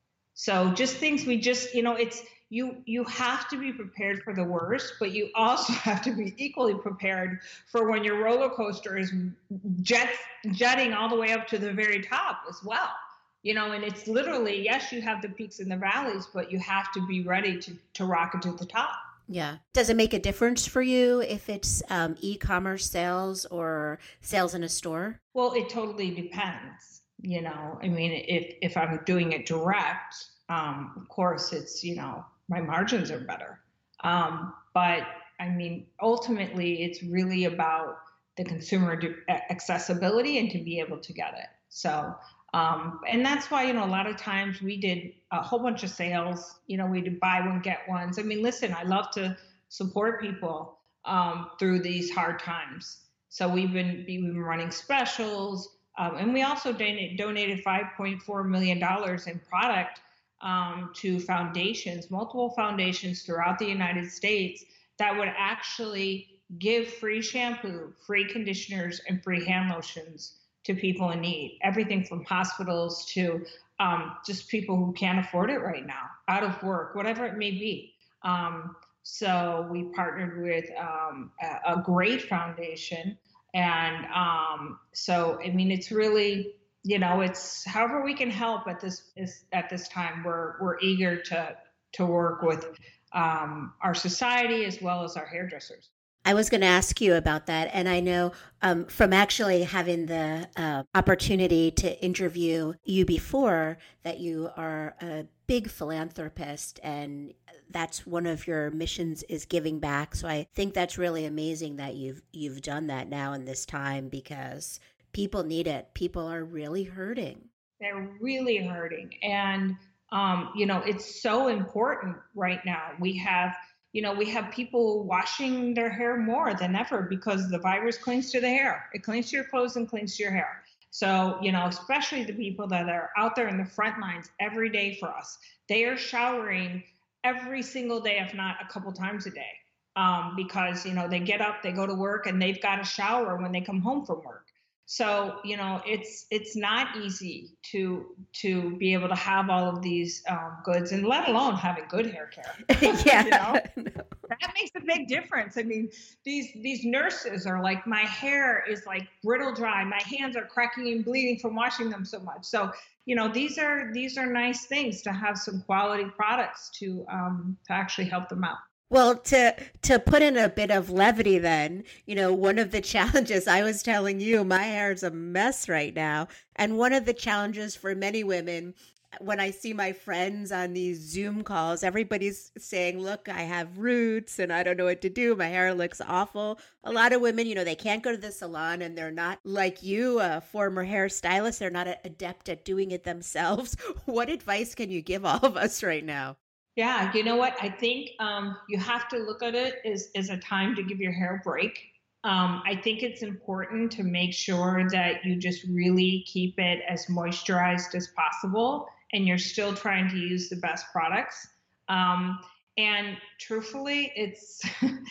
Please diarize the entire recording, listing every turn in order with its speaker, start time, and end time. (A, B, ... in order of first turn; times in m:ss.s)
0:00.4-0:19.0 A
0:19.3-0:25.2 B
0:25.4-1:35.9 A
1:36.2-1:57.5 B
1:57.8-2:33.6 A
2:32.7-2:34.1 B
2:34.3-2:48.6 A
2:48.9-3:16.4 B
3:16.8-3:34.6 A